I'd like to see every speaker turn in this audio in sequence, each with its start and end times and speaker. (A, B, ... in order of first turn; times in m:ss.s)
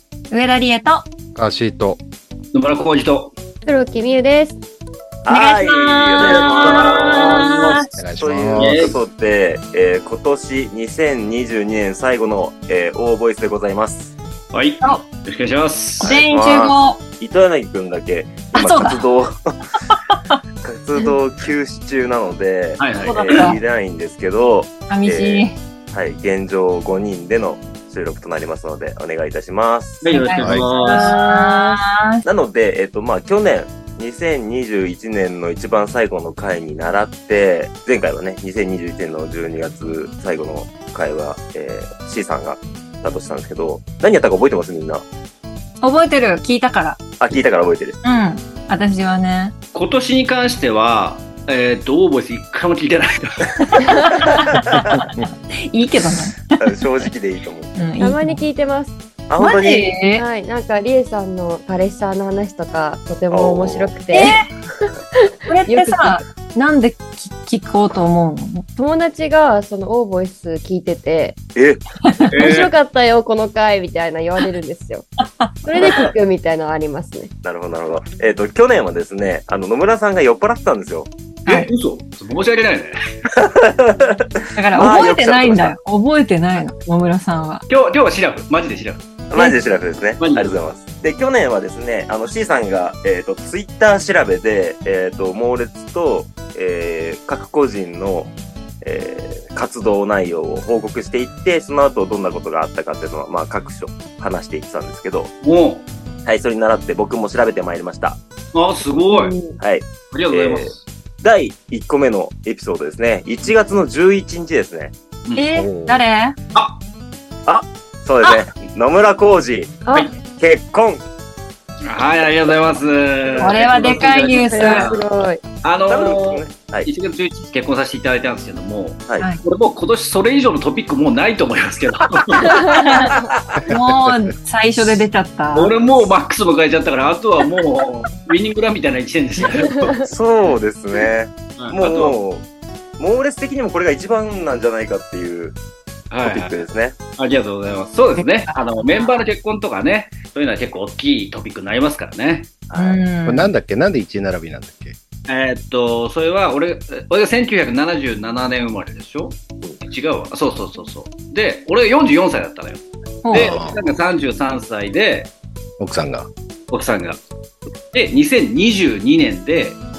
0:00.3-0:01.1 A
0:01.4-0:02.0 B
0:02.5-0:03.3 C
0:03.6-0:04.6 D
0:05.2-0:07.5 E
0:05.3-0:07.9 A
0:06.2-0:07.9 C
0:08.0-0:08.9 B
0:08.2-0:14.1 E
0:08.6-0:09.0 C
0:14.5-0:16.2 C
0:16.0-0:17.0 A
0:16.0-0:19.4 E
0:18.6-0:19.0 A
0:19.9-0:20.4 A
0:20.6-0:30.1 E
0:22.8-0:23.6 C
0:23.0-0:23.6 A
0:24.9-0:25.6 A
0:30.0-0:31.2 C
0:30.1-0:32.2 A
0:30.4-0:30.7 B
0:31.0-0:31.7 D
0:32.2-0:45.0 E
0:45.8-0:47.0 A
0:47.2-0:48.0 E
0:48.0-0:49.6 A
0:49.7-0:54.0 C
0:53.8-0:56.8 A
0:54.6-0:55.0 E
0:56.6-0:57.8 E
0:57.8-0:58.4 A
0:58.0-0:59.0 D
0:59.3-1:00.0 E
0:59.4-1:00.2 A
1:00.1-1:06.2 D
1:03.3-1:03.9 E
1:04.1-1:04.5 A
1:05.5-1:08.7 A
1:08.8-1:11.4 D
1:11.6-1:11.8 E
1:12.3-1:12.7 C
1:12.4-1:15.1 D
1:15.4-1:15.9 A
1:15.6-1:17.3 D
1:15.8-1:16.1 E
1:17.4-1:21.1 E
1:21.5-1:23.0 C
1:23.3-1:25.8 E
1:24.6-1:27.6 A
1:27.7-1:29.0 C
1:29.3-1:45.3 E
1:30.2-1:30.5 C
1:45.4-1:45.9 C
1:46.2-1:48.2 E
1:48.5-1:49.4 C
1:49.1-1:49.6 D
1:49.6-1:54.9 E
1:50.1-1:50.8 C
1:55.4-1:56.4 A
1:55.5-1:56.0 B
1:56.5-1:56.8 C
1:57.5-2:01.0 E
1:59.8-2:00.1 D
2:01.8-2:05.1 C
2:03.4-2:04.9 A
2:04.5-2:05.4 D
2:05.6-2:12.7 C
2:05.9-2:06.9 E
2:12.4-2:13.3 D
2:12.8-2:13.1 A
2:13.3-2:13.6 E
2:13.6-2:14.2 B
2:13.7-2:15.8 A
2:15.5-2:20.0 C
2:19.6-2:20.1 D
2:20.1-2:22.4 E
2:21.6-2:22.2 C
2:23.0-2:25.6 E
2:26.1-2:26.6 C
2:26.2-2:27.0 E
2:27.2-2:32.5 C
2:28.5-2:29.2 A
2:32.7-2:33.0 E
2:32.8-2:33.5 A
2:33.3-2:35.0 B
2:35.3-2:45.3 C
2:43.2-2:43.6 A
2:43.3-2:43.9 B
2:45.8-2:46.3 B
2:46.7-2:47.2 C
2:47.9-2:49.8 C